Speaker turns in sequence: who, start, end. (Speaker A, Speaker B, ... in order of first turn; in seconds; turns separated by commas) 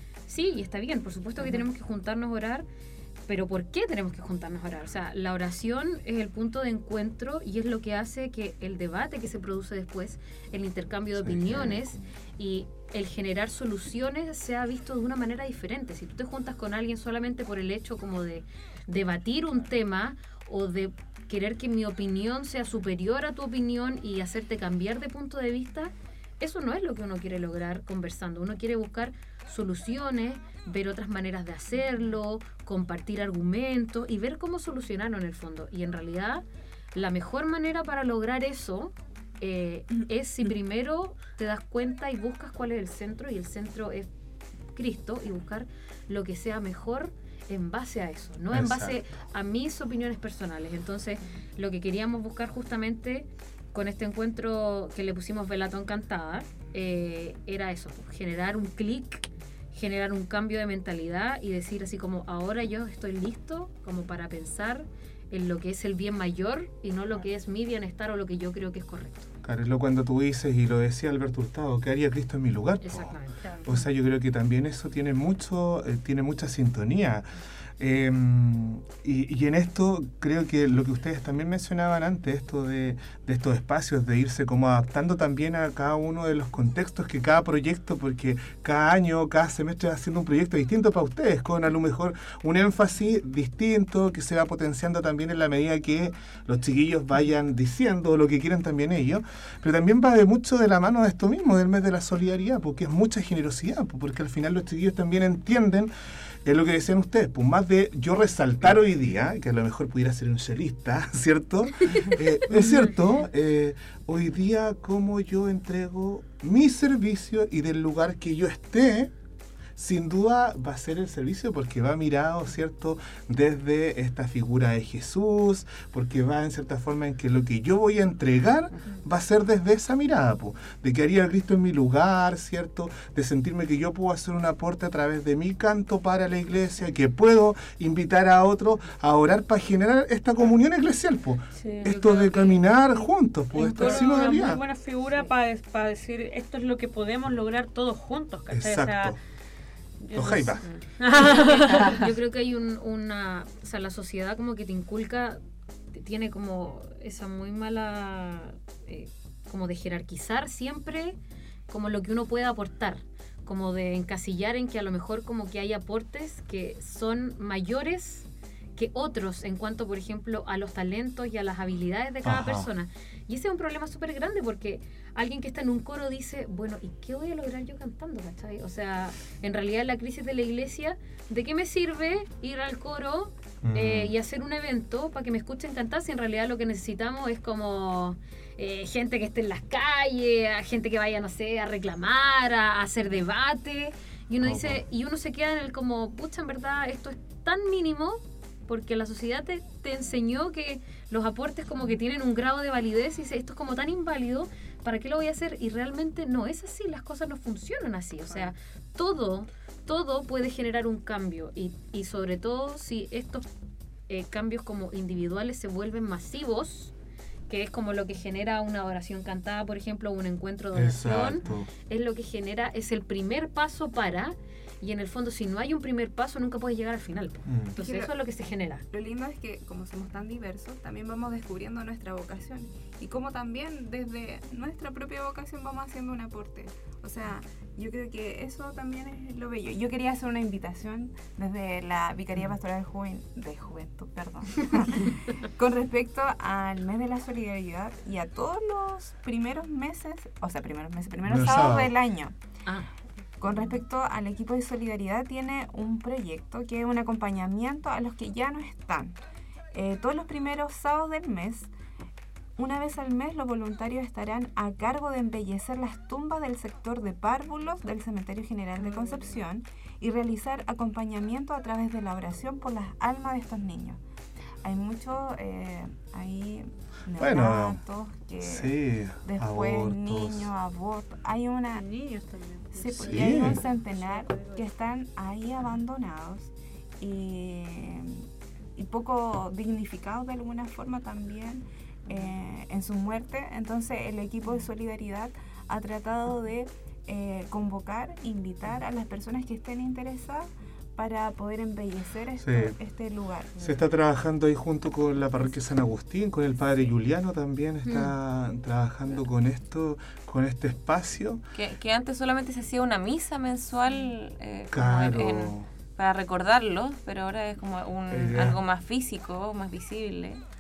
Speaker A: 0.3-2.7, Speaker A: 3.3-44.1, Speaker B: 11.2-11.8, Speaker A: 44.8-69.3, Speaker B: 48.5-49.0, Speaker B: 69.4-73.1, Speaker A: 72.8-73.8, Speaker B: 73.7-77.3, Speaker B: 77.8-105.9, Speaker B: 106.5-119.1, Speaker B: 119.8-144.6, Speaker C: 141.6-142.0, Speaker A: 141.8-142.8, Speaker C: 143.5-149.2, Speaker A: 143.7-144.1, Speaker B: 148.5-149.2, Speaker C: 150.0-152.1, Speaker B: 150.1-150.7, Speaker A: 150.7-155.4, Speaker A: 155.9-161.2, Speaker A: 161.7-213.5, Speaker B: 172.2-172.7, Speaker B: 183.6-184.1, Speaker B: 194.4-194.8, Speaker A: 214.1-216.9, Speaker A: 217.5-228.8, Speaker B: 220.7-221.7, Speaker B: 227.5-227.8, Speaker D: 227.8-228.2, Speaker D: 228.9-252.3, Speaker B: 251.3-251.9, Speaker D: 253.4-259.2, Speaker D: 259.7-261.7, Speaker D: 262.6-274.0, Speaker C: 268.8-269.3, Speaker D: 274.6-282.0, Speaker B: 277.2-277.8, Speaker B: 278.4-280.5, Speaker C: 281.8-284.6, Speaker D: 282.7-288.2, Speaker B: 283.1-283.6, Speaker D: 288.8-303.8, Speaker B: 302.4-302.7, Speaker B: 303.6-311.4, Speaker A: 307.9-308.1, Speaker E: 311.6-320.4, Speaker B: 314.7-315.7, Speaker B: 318.1-318.6